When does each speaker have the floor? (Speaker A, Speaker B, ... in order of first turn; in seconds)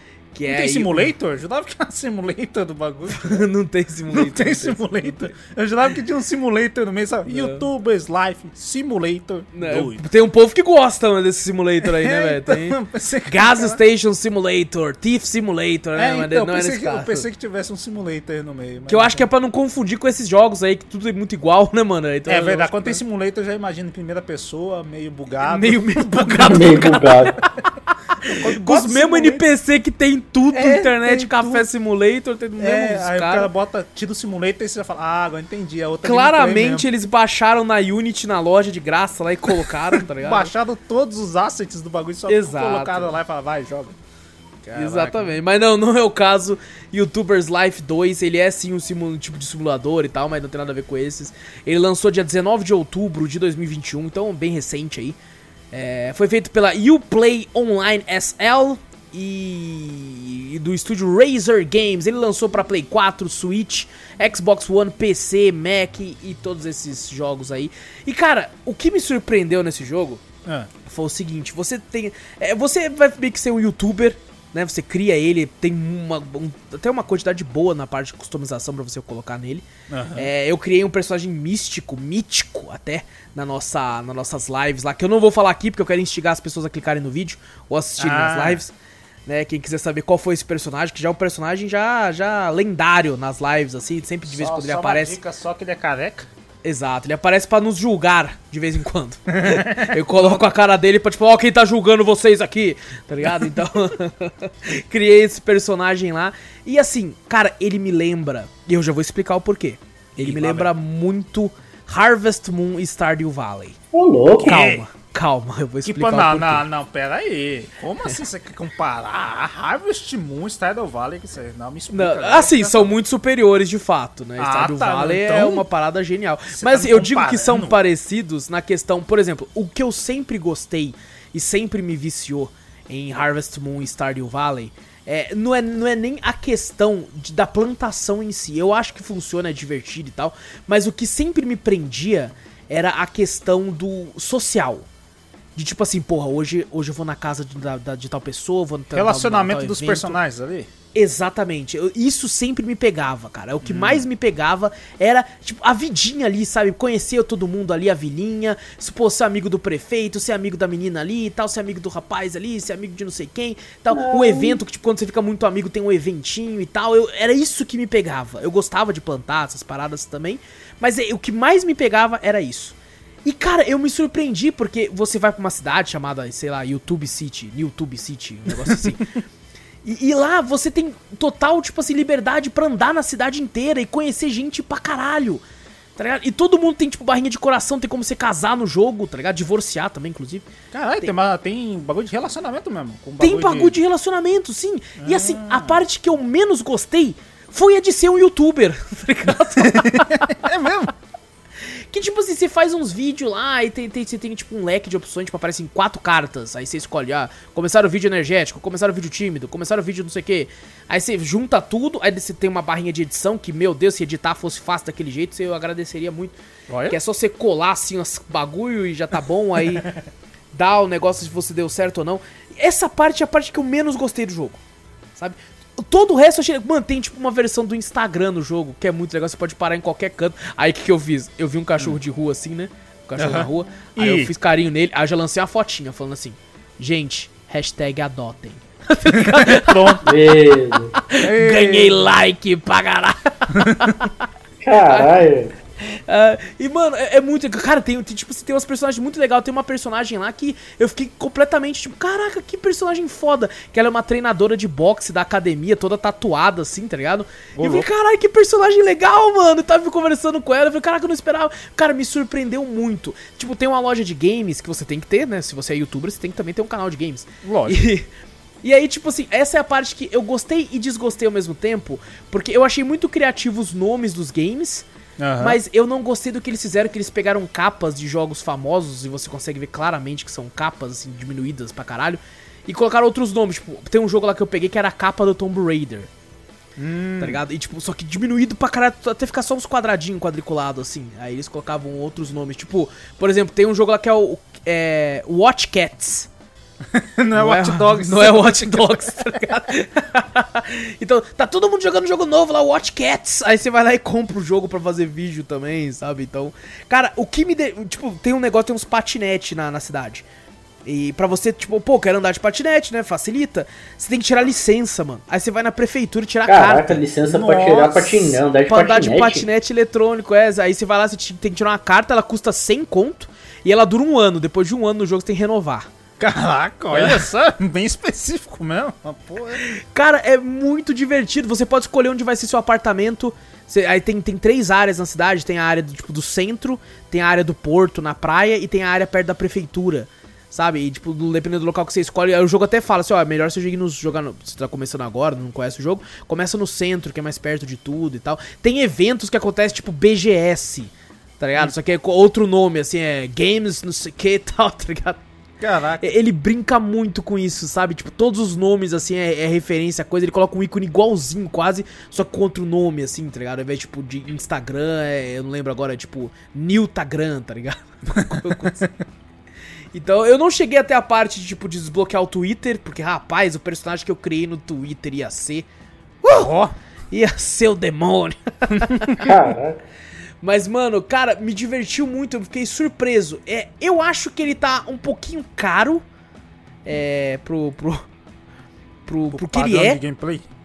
Speaker A: 0.3-1.1, 3.1-5.2, 7.3-7.6, 9.5-12.8, 13.3-17.2, 18.9-23.0, 25.4-27.4, 28.2-33.5, 36.0-40.5, 42.3-43.1, 44.7-55.2, 55.7-70.2, 70.8-88.7, 89.3-95.2, 96.6-113.8, 114.5-116.6, 121.9-144.8, 145.6-150.2, 150.9-179.1, 179.8-185.4, 185.9-190.5, 193.2-200.4, 201.6-216.3, 216.9-219.9, 220.5-224.6, 225.2-240.0, 240.9-244.1, 245.8-268.1, 268.6-274.9, 275.4-286.1, 287.2-296.3, 297.3-310.2, 310.8-317.0, 318.7-325.9, 326.9-327.2, 329.6-355.2, 356.0-368.9, 369.9-375.7, 376.2-376.5, 377.1-379.1, 380.4-386.0, 386.8-388.0, 389.1-390.0
Speaker B: 0.5-3.5, 4.1-10.0, 11.8-13.8, 15.9-19.2, 22.3-26.9, 28.1-29.4, 30.5-31.6, 32.6-36.9, 39.5-44.0, 44.6-45.4, 79.9-80.3, 88.0-88.6, 94.3-96.3, 99.3-100.4, 110.2-110.7, 114.3-114.9, 115.8-122.9, 124.4-125.6, 126.5-127.8, 148.9-150.7, 153.6-154.0, 190.7-193.8, 195.0-195.8, 199.6-200.9, 216.7-216.9, 233.2-234.3, 239.1-240.1, 241.2-242.0, 243.6-243.9, 257.5-257.9, 267.4-267.8, 275.2-275.6, 286.8-287.4, 296.9-299.4, 317.2-318.4, 326.2-329.7, 355.6-356.1, 368.1-368.9, 376.2-376.7, 378.7-379.2, 389.3-390.4
Speaker C: 26.4-27.4, 113.9-114.7, 163.9-164.6, 240.0-240.9, 244.6-245.5, 316.4-319.5, 379.2-379.8